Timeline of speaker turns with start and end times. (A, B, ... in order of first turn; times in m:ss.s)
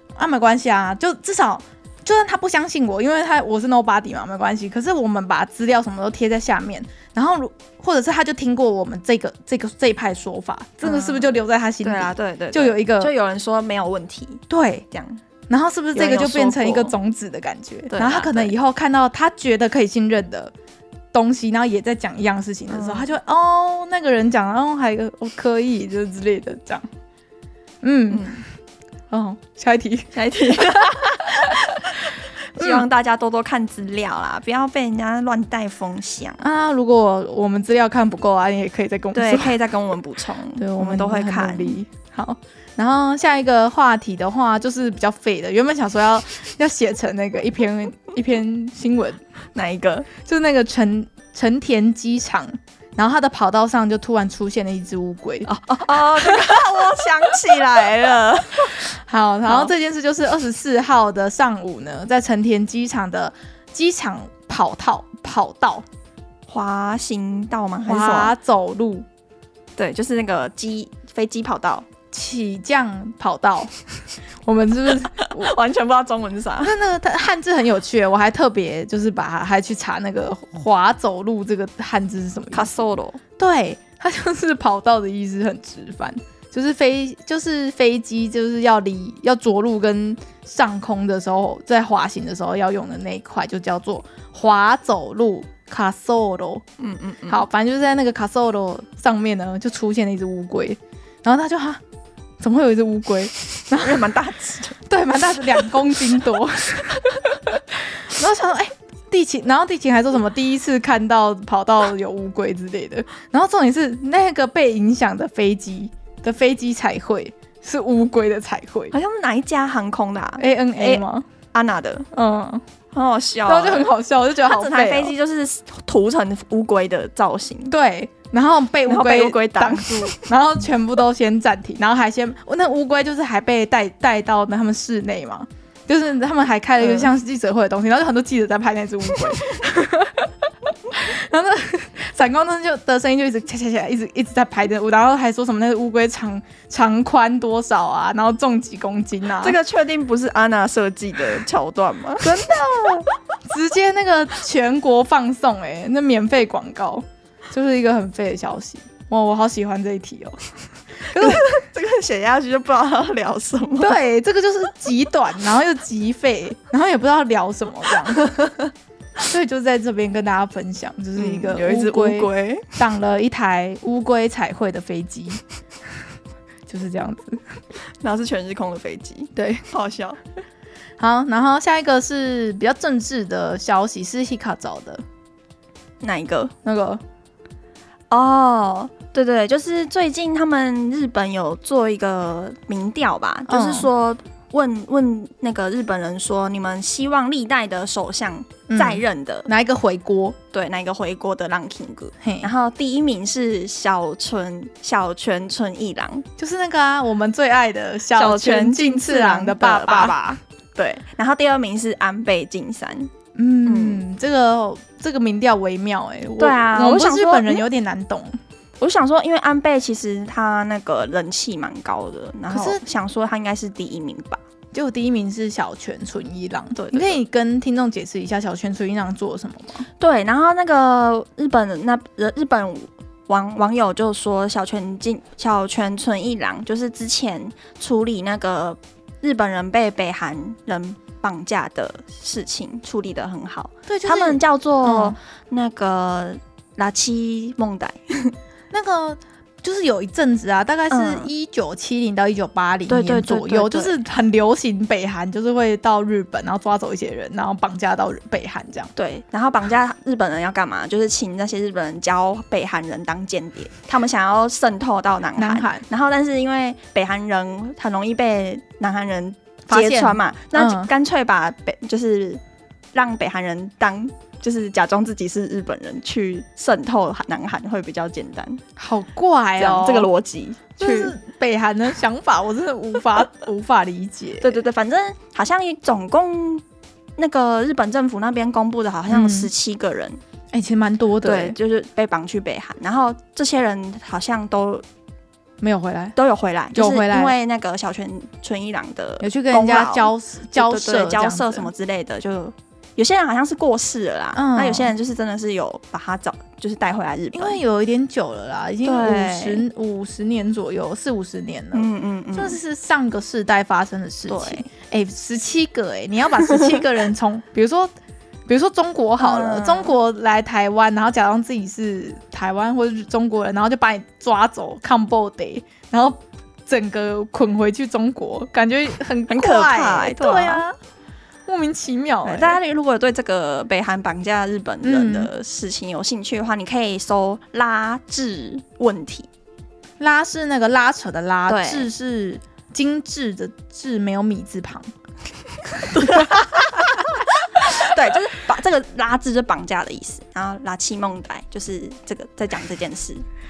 0:00.2-0:13.1 A
0:10.8-0:15.2 B
0:14.5-0:14.8 A
0:15.5-0:20.5 A
0:15.9-0:17.0 B
0:17.9-0:18.5 B
0:21.1-0:26.9 A
0:22.7-0:23.1 B
0:27.8-0:28.4 A
0:28.1-0:28.4 B
0:29.1-0:32.0 A
0:30.1-0:31.9 B
0:32.5-0:36.4 B
0:32.6-0:32.8 A
0:36.4-0:39.6 A
0:39.1-0:41.8 B
0:40.6-0:49.2 A
0:49.5-0:50.1 B
0:50.2-0:55.5 A
0:55.4-0:58.8 B
0:56.2-0:56.5 A
0:58.7-1:05.8 A
0:59.5-0:59.7 B
1:06.5-1:08.3 B
1:07.8-1:09.0 A
1:09.8-1:11.9 B
1:12.1-1:13.7 A
1:14.4-1:15.5 A
1:15.0-1:16.7 B
1:16.6-1:22.7 A
1:22.5-1:23.2 B
1:23.4-1:36.6 A
1:36.8-1:37.4 B
1:37.3-1:41.8 A
1:42.4-1:44.1 A
1:43.7-1:44.8 B
1:44.8-1:58.9 A
1:58.9-2:02.1 B
2:00.4-2:01.2 A
2:02.1-2:02.6 A
2:02.9-2:03.9 B
2:03.4-2:05.1 A
2:04.4-2:07.7 B
2:07.7-2:29.6 A
2:08.8-2:10.3 B
2:16.8-2:17.1 B
2:29.4-2:32.4 B
2:32.2-2:41.6 A
2:41.1-2:44.0 B
2:43.8-2:48.4 A
2:48.2-2:48.5 B
2:49.2-2:55.4 A
2:51.2-2:52.8 B
2:56.7-2:57.4 A
2:58.0-3:00.2 B
2:59.4-2:59.6 A
3:01.0-3:05.0 A
3:06.0-3:06.5 B
3:06.6-3:07.0 A
3:08.1-3:19.5 B
3:13.5-3:13.9 A
3:18.7-3:20.4 A
3:20.5-3:26.2 B
3:22.2-3:22.5 A
3:26.4-3:30.2 A
3:28.1-3:33.1 B
3:33.3-3:38.4 A
3:33.6-3:34.0 B
3:36.4-3:37.6 B
3:38.8-3:44.4 B
3:42.5-3:42.8 A
3:44.7-3:49.8 A
3:46.8-3:47.2 B
3:50.0-4:08.3 B
4:03.9-4:05.2 A
4:08.7-4:18.9 A
4:10.9-4:11.3 B
4:12.9-4:14.0 B
4:19.0-4:32.4 B
4:25.4-4:25.8 A
4:29.7-4:30.9 A
4:32.9-4:38.6 B
4:38.8-4:40.1 A
4:39.6-4:41.1 B
4:40.8-4:44.6 A
4:44.4-4:46.6 B
4:47.2-4:50.2 B
4:49.1-4:49.5 A
4:50.5-4:51.6 A
4:51.2-4:54.8 B
4:55.6-4:56.1 A
4:56.2-5:07.6 B
4:56.7-4:57.3 A
4:59.2-5:01.7 A
5:04.3-5:04.9 A
5:07.3-5:17.9 A
5:08.8-5:09.6 B
5:11.7-5:12.6 B
5:14.3-5:14.7 B
5:18.5-5:30.7 A
5:19.2-5:19.9 B
5:29.3-5:30.6 B
5:31.5-5:32.6 A
5:32.2-5:39.3 B
5:34.8-5:35.3 A
5:40.0-5:44.9 A
5:41.5-5:41.9 B
5:45.8-5:46.3 A
5:45.9-5:53.2 B